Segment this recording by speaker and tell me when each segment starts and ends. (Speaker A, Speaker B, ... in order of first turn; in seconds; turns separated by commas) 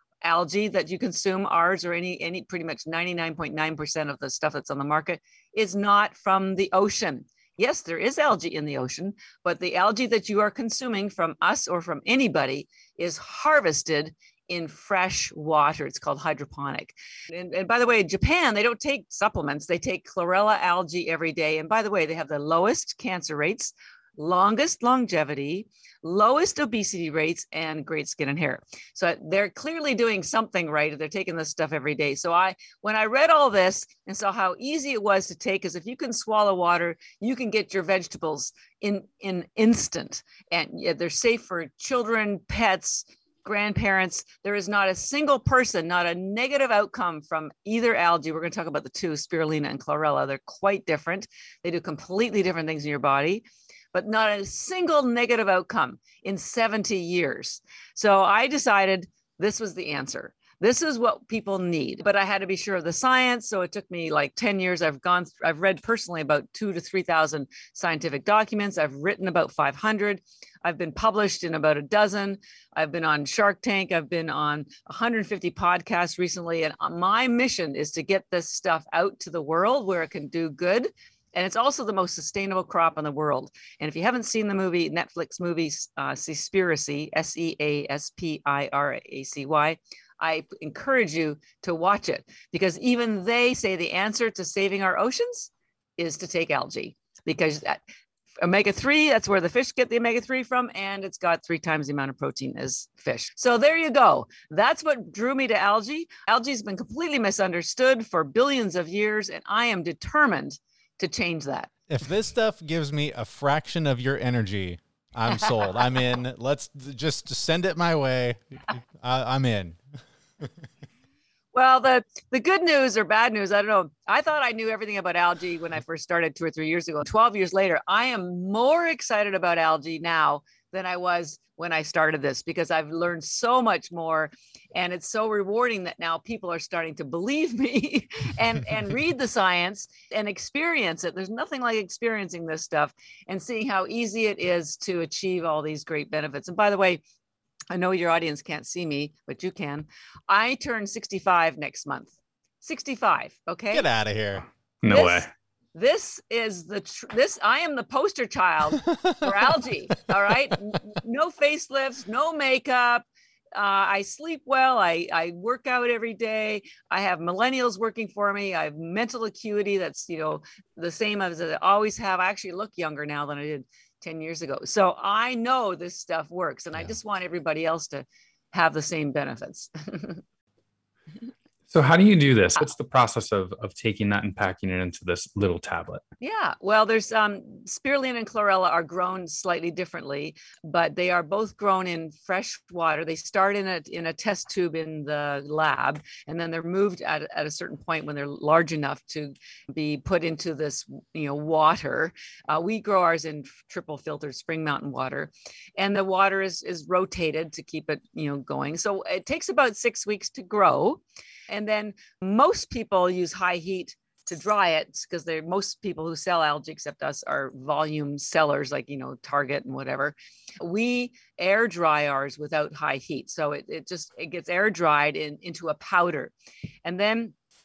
Speaker A: 0.2-97.8, Speaker A: 98.4-111.7, Speaker B: 111.9-119.8, Speaker A: 121.5-147.0, Speaker A: 147.7-153.9, Speaker B: 153.7-154.4, Speaker C: 154.8-155.3, Speaker A: 154.9-180.2, Speaker B: 158.8-159.1, Speaker C: 181.7-186.0, Speaker A: 186.2-226.3, Speaker A: 226.8-227.3